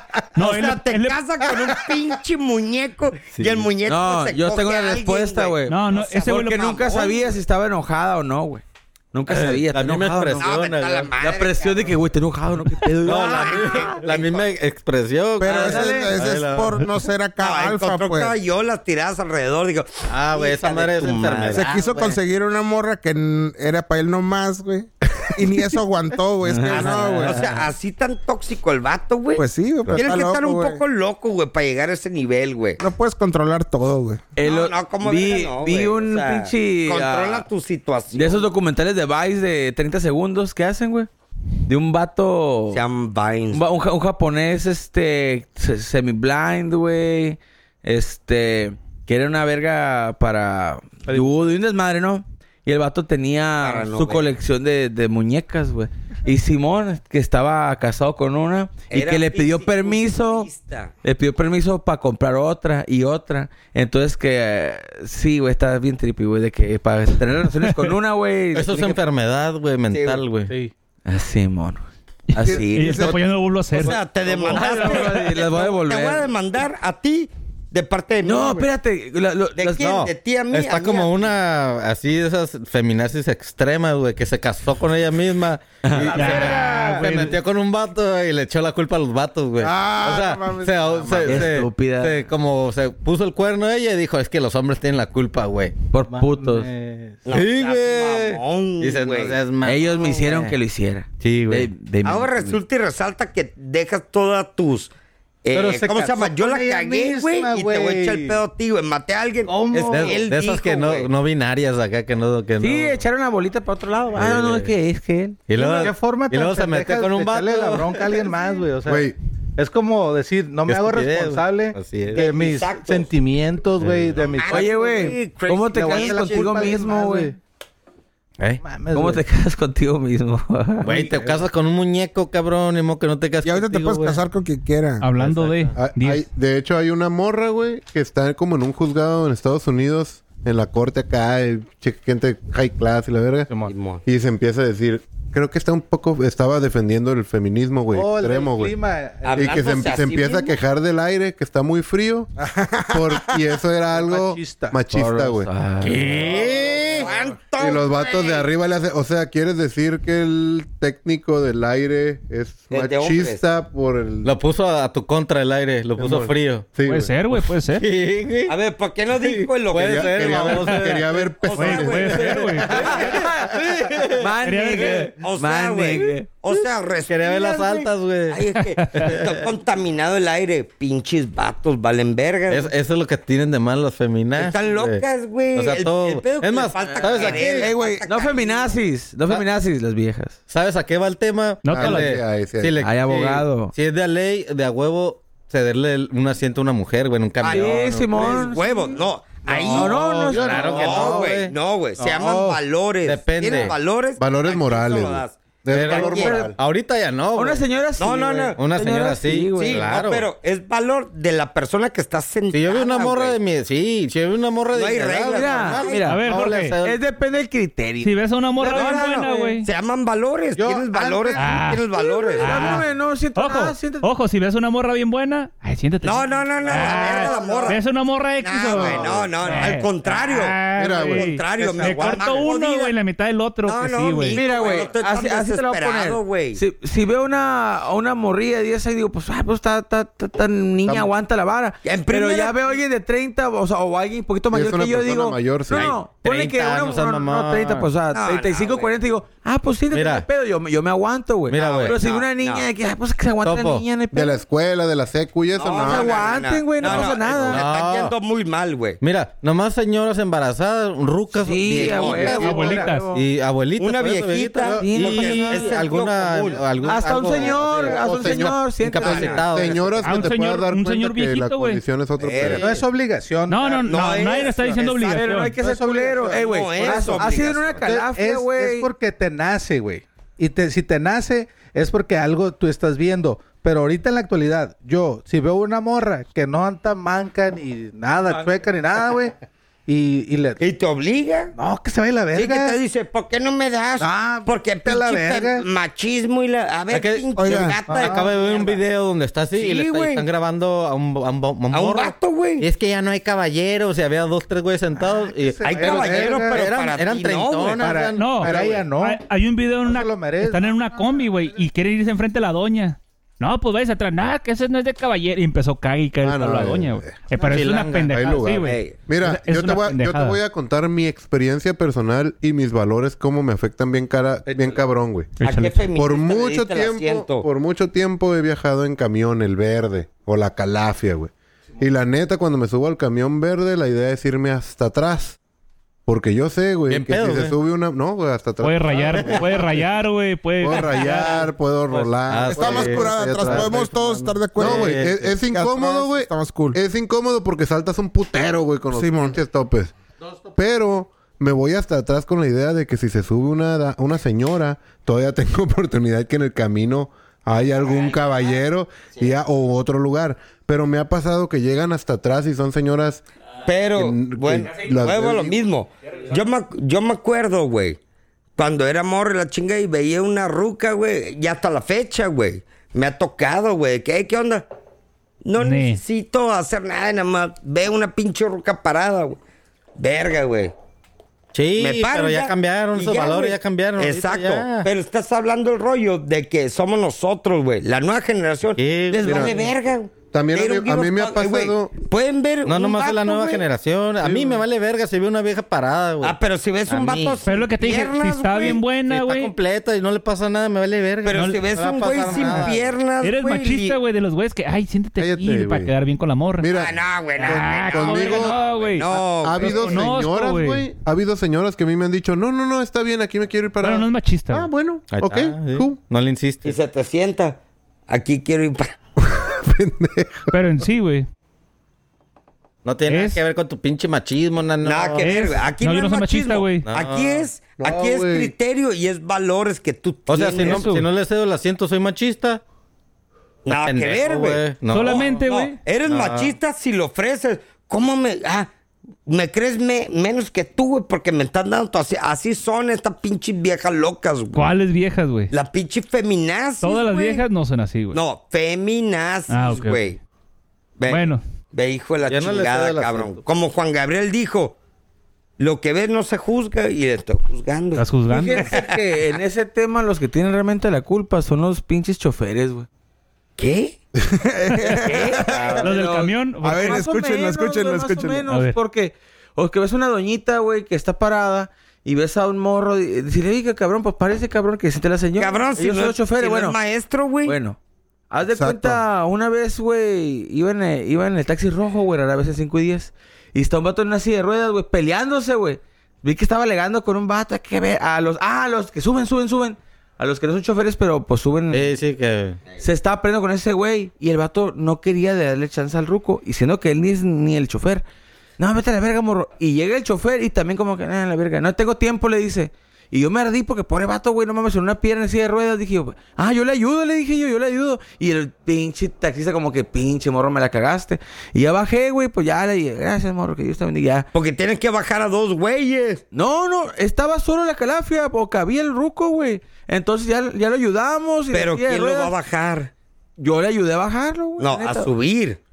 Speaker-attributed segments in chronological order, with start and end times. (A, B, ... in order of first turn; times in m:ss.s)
0:00.4-0:07.3 A
0:00.4-0:01.2 B
0:03.3-0:03.7 C
0:03.9-0:10.5 D
0:05.7-0:07.0 B
0:09.3-0:11.1 C
0:10.4-0:12.0 A
0:11.2-0:13.9 D
0:13.0-0:16.9 C
0:13.1-0:14.5 A
0:15.4-0:18.4 E
0:15.4-0:16.2 D
0:17.4-0:21.7 A
0:20.1-0:22.2 C
0:21.5-0:27.4 E
0:26.4-0:27.6 D
0:26.7-0:32.8 A
0:29.4-0:30.8 E
0:32.8-0:34.2 E
0:34.4-0:37.5 D
0:34.4-0:38.5 A
0:38.1-0:41.1 D
0:41.7-0:42.8 D
0:42.7-0:43.7 A
0:43.5-1:00.5 D
0:51.1-0:51.5 F
0:53.6-0:54.3 A
0:58.9-1:00.9 A
1:01.0-1:09.0 D
1:07.6-1:07.9 B
1:08.6-1:10.5 C
1:09.9-1:10.2 A
1:10.5-1:10.7 F
1:11.1-1:13.2 D
1:12.3-1:14.0 B
1:12.4-1:13.2 E
1:13.8-1:18.7 A
1:13.8-1:16.3 D
1:14.6-1:15.0 C
1:18.2-1:19.9 D
1:19.6-1:21.3 A
1:19.7-1:35.9 C
1:25.8-1:27.0 D
1:26.0-1:27.2 F
1:26.1-1:27.4 B
1:29.6-1:31.4 E
1:31.2-1:32.3 D
1:35.9-1:36.7 D
1:36.0-1:37.3 F
1:37.3-1:39.4 A
1:37.3-1:40.6 C
1:39.6-1:42.6 D
1:41.2-1:41.7 C
1:42.0-1:44.9 A
1:45.4-1:51.1 A
1:45.5-1:48.4 F
1:49.5-1:50.2 F
1:49.9-1:53.0 C
1:52.6-1:55.4 D
1:54.2-1:54.7 C
1:55.5-1:58.6 C
1:55.5-2:07.4 F
1:58.9-1:59.2 G
2:00.7-2:02.2 C
2:02.1-2:03.1 A
2:03.8-2:04.2 C
2:04.3-2:06.8 A
2:04.5-2:07.3 D
2:08.6-2:09.2 F
2:08.9-2:11.2 D
2:10.8-2:14.2 C
2:10.8-2:11.4 F
2:13.4-2:15.1 E
2:15.0-2:16.2 B
2:15.2-2:15.7 C
2:15.8-2:23.5 G
2:23.6-2:24.0 A
2:24.0-2:28.8 G
2:27.9-2:29.9 F
2:29.2-2:30.6 A
2:29.4-2:32.3 G
2:32.6-2:33.4 E
2:32.9-2:35.5 G
2:33.9-2:34.8 F
2:35.0-2:36.2 D
2:35.8-2:37.1 C
2:36.0-2:37.0 F
2:36.9-2:38.5 A
2:37.6-2:44.3 G
2:42.7-2:43.4 A
2:44.2-2:46.7 C
2:46.0-2:47.1 G
2:46.8-2:47.9 B
2:47.3-2:48.6 C
2:48.5-2:53.2 A
2:49.2-2:51.0 C
2:49.8-2:52.7 G
2:51.5-2:53.3 B
2:52.6-2:56.3 D
2:52.7-2:54.3 C
2:54.4-2:55.1 B
2:55.2-3:02.7 A
2:56.5-2:59.5 C
2:58.8-2:59.2 B
3:02.5-3:05.0 C
3:04.4-3:08.8 A
3:05.5-3:07.8 C
3:06.9-3:07.3 D
3:07.4-3:08.0 E
3:08.1-3:10.4 D
3:10.5-3:18.5 C
3:11.6-3:12.1 B
3:11.7-3:12.8 G
3:12.8-3:13.7 D
3:17.4-3:20.0 A
3:17.5-3:19.0 D
3:19.5-3:21.2 F
3:19.7-3:21.2 D
3:19.8-3:21.5 C
3:20.6-3:26.5 A
3:22.0-3:22.6 F
3:23.0-3:23.8 C
3:24.2-3:26.6 G
3:25.7-3:27.6 C
3:27.4-3:29.8 D
3:28.0-3:28.6 A
3:28.6-3:30.3 C
3:29.6-3:33.4 A
3:32.5-3:37.0 C
3:34.7-3:36.2 A
3:35.3-3:36.2 D
3:36.1-3:36.8 B
3:36.8-3:39.5 D
3:38.0-3:39.7 B
3:38.6-3:42.8 A
3:40.6-3:41.7 F
3:41.4-3:41.8 B
3:42.3-3:44.1 D
3:42.4-3:54.4 B
3:46.0-3:47.8 A
3:46.7-3:47.8 D
3:48.4-3:52.9 A
3:48.7-3:49.3 G
3:49.4-3:49.7 D
3:50.7-3:51.3 G
3:51.6-3:52.5 D
3:53.7-3:56.6 A
3:54.3-4:14.4 D
4:01.8-4:02.8 A
4:04.5-4:05.9 G
4:05.7-4:06.0 A
4:06.2-4:07.9 C
4:08.1-4:08.9 A
4:09.9-4:10.3 C
4:11.5-4:12.0 C
4:11.5-4:12.7 A
4:13.4-4:13.9 C
4:14.1-4:16.4 G
4:15.6-4:19.0 A
4:15.8-4:17.7 D
4:16.8-4:18.2 C
4:19.0-4:30.0 C
4:21.3-4:23.2 D
4:21.7-4:22.9 A
4:22.2-4:23.1 B
4:23.8-4:28.1 A
4:24.7-4:25.6 D
4:26.8-4:29.4 D
4:28.0-4:28.7 G
4:29.0-4:29.5 A
4:29.4-4:32.8 G
4:30.0-4:31.8 B
4:32.2-4:32.8 A
4:32.4-4:34.1 F
4:33.5-4:35.6 B
4:33.8-4:35.2 A
4:35.0-4:38.9 D
4:35.6-4:50.6 F
4:36.3-4:37.8 A
4:50.6-4:51.5 A
4:51.6-4:52.8 F
4:52.3-4:58.8 A
4:54.0-4:55.7 F
4:56.9-5:08.6 C
4:57.4-4:57.8 E
4:57.9-4:58.3 F
4:59.5-5:00.3 A
5:01.7-5:02.7 A
5:05.0-5:06.7 F
5:05.6-5:08.0 A
5:07.8-5:09.2 F
5:08.2-5:20.4 B
5:08.5-5:08.8 A
5:09.8-5:11.2 F
5:16.2-5:17.3 G
5:17.4-5:18.4 C
5:18.1-5:25.4 G
5:18.5-5:19.0 A
5:24.5-5:24.8 F
5:25.4-5:25.8 B
5:25.4-5:27.5 A
5:26.0-5:35.4 G
5:36.1-5:39.6 G
5:36.9-5:37.6 C
5:38.6-5:41.5 B
5:39.0-5:39.5 C
5:40.6-5:50.0 G
5:42.0-5:43.7 C
5:42.5-5:46.8 E
5:44.6-5:45.3 C
5:48.9-5:49.4 E
5:50.6-6:03.2 G
6:03.7-6:08.0 A
6:04.0-6:05.6 G
6:08.6-6:14.7 A
6:15.4-6:19.4 A
6:15.6-6:16.0 B
6:20.0-6:20.7 A
6:21.5-6:24.9 C
6:21.8-6:33.7 A
6:28.8-6:29.6 C
6:29.2-6:29.6 G
6:30.3-6:32.0 G
6:32.6-6:37.4 C
6:34.2-6:34.6 G
6:36.2-6:38.9 A
6:37.5-6:39.5 B
6:39.0-6:43.0 C
6:41.2-6:44.0 A
6:43.2-6:46.7 B
6:45.2-6:45.9 G
6:46.6-6:48.6 G
6:46.7-6:50.1 A
6:47.4-6:49.1 B
6:49.1-6:56.0 G
6:49.6-6:50.8 B
6:53.8-6:54.7 B
6:55.1-6:56.8 C
6:56.6-6:59.0 A
6:59.3-7:00.6 G
7:00.5-7:01.3 B
7:02.8-7:05.3 C
7:03.1-7:03.4 B
7:04.8-7:11.0 A
7:05.2-7:06.9 B
7:06.8-7:07.5 C
7:07.8-7:08.5 G
7:10.3-7:12.6 C
7:10.6-7:11.1 B
7:13.7-7:18.7 A
7:13.7-7:15.4 C
7:14.9-7:15.8 B
7:16.0-7:16.6 C
7:19.3-7:24.7 A
7:24.5-7:25.5 B
7:25.5-7:27.4 A
7:26.8-7:28.2 B
7:28.1-7:30.2 A
7:29.5-7:30.0 B
7:31.0-7:34.8 A
7:31.1-7:31.4 B
7:32.3-7:33.4 C
7:35.6-7:38.1 A
7:38.0-7:38.7 B
7:38.3-7:42.9 D
7:38.6-7:39.0 A
7:43.6-7:44.0 A
7:44.3-7:45.8 E
7:44.9-7:45.8 A
7:45.0-7:56.8 D
7:45.8-7:47.1 B
7:46.6-7:48.4 E
7:48.5-7:48.8 B
7:55.4-7:57.6 A
7:57.4-7:57.8 D
7:58.3-8:11.9 D
7:58.4-7:59.0 E
8:11.7-8:12.6 C
8:12.8-8:18.1 D
8:18.6-8:34.3 D
8:34.3-8:36.2 A
8:36.3-8:42.3 D
8:41.5-8:42.9 A
8:43.4-8:45.1 D
8:44.6-8:45.6 A